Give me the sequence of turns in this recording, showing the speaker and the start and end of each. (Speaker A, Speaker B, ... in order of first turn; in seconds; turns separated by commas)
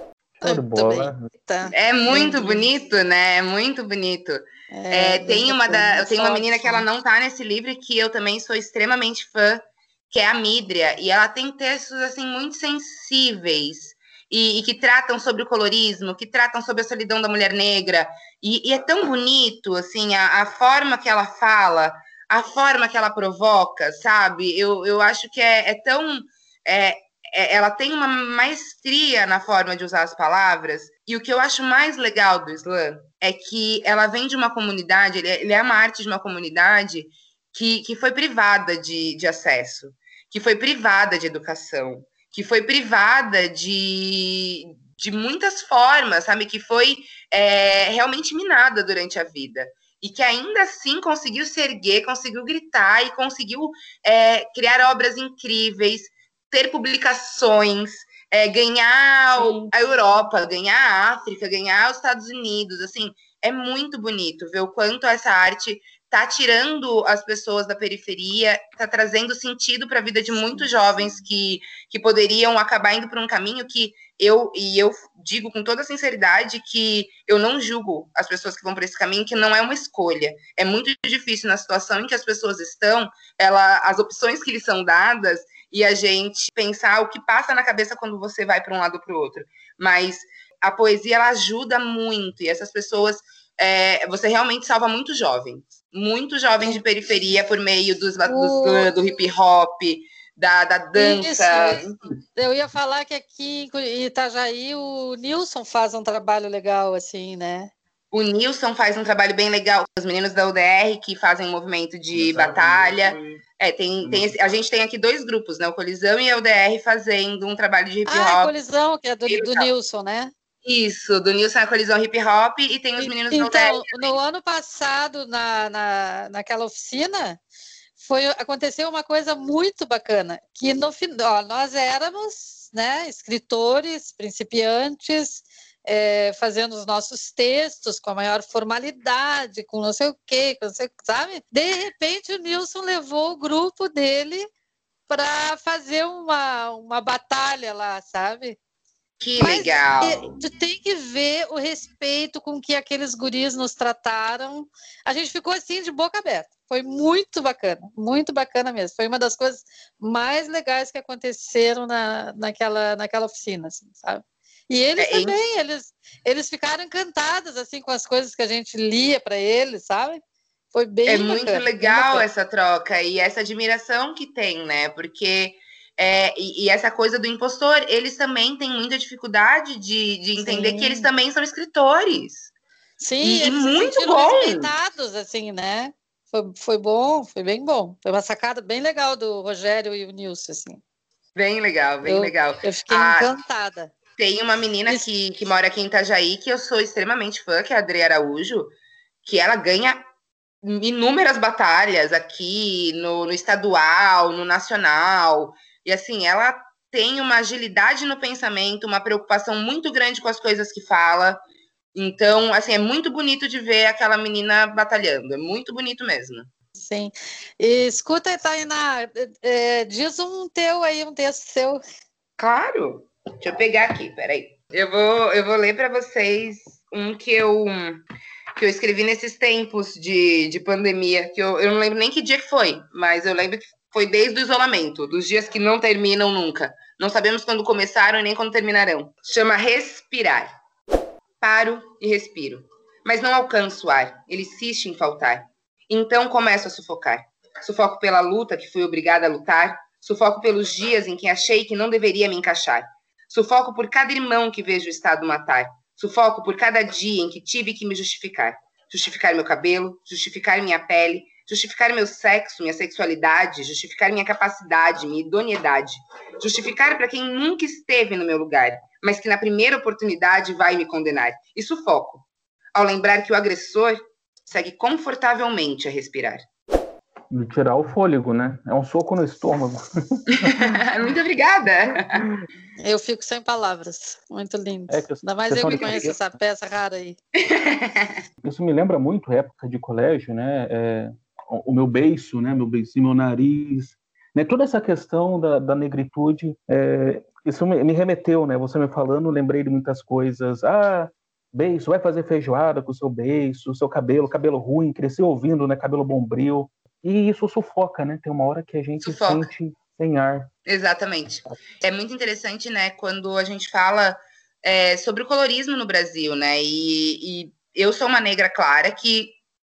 Speaker A: 0.4-1.3, Speaker B: 0.4-2.7, Speaker C: 1.7-102.0, Speaker B: 4.7-6.9, Speaker B: 59.4-59.7, Speaker B: 98.3-98.9, Speaker B: 101.0-101.8, Speaker B: 102.4-107.7, Speaker C: 108.1-118.5, Speaker B: 118.1-120.3, Speaker C: 119.3-119.7, Speaker C: 120.6-124.2, Speaker B: 123.0-127.4, Speaker B: 128.0-144.5, Speaker B: 145.1-148.6, Speaker C: 149.2-150.3, Speaker B: 149.4-172.2, Speaker C: 165.0-165.4, Speaker C: 171.1-182.5, Speaker B: 180.4-181.1, Speaker B: 183.0-190.8, Speaker C: 183.2-184.7, Speaker C: 191.3-193.3, Speaker B: 192.0-193.9, Speaker C: 194.2-198.7, Speaker C: 199.2-200.0, Speaker C: 200.6-211.4, Speaker C: 211.9-216.5, Speaker B: 216.8-221.8, Speaker C: 222.4-228.0, Speaker C: 228.6-240.5, Speaker C: 241.4-276.4, Speaker A: 277.3-280.9, Speaker C: 280.3-282.2, Speaker A: 282.1-282.5, Speaker B: 282.8-287.2, Speaker A: 284.9-286.3, Speaker C: 285.7-286.1, Speaker C: 287.4-288.2, Speaker A: 288.4-310.5, Speaker C: 309.0-309.5, Speaker C: 310.7-319.4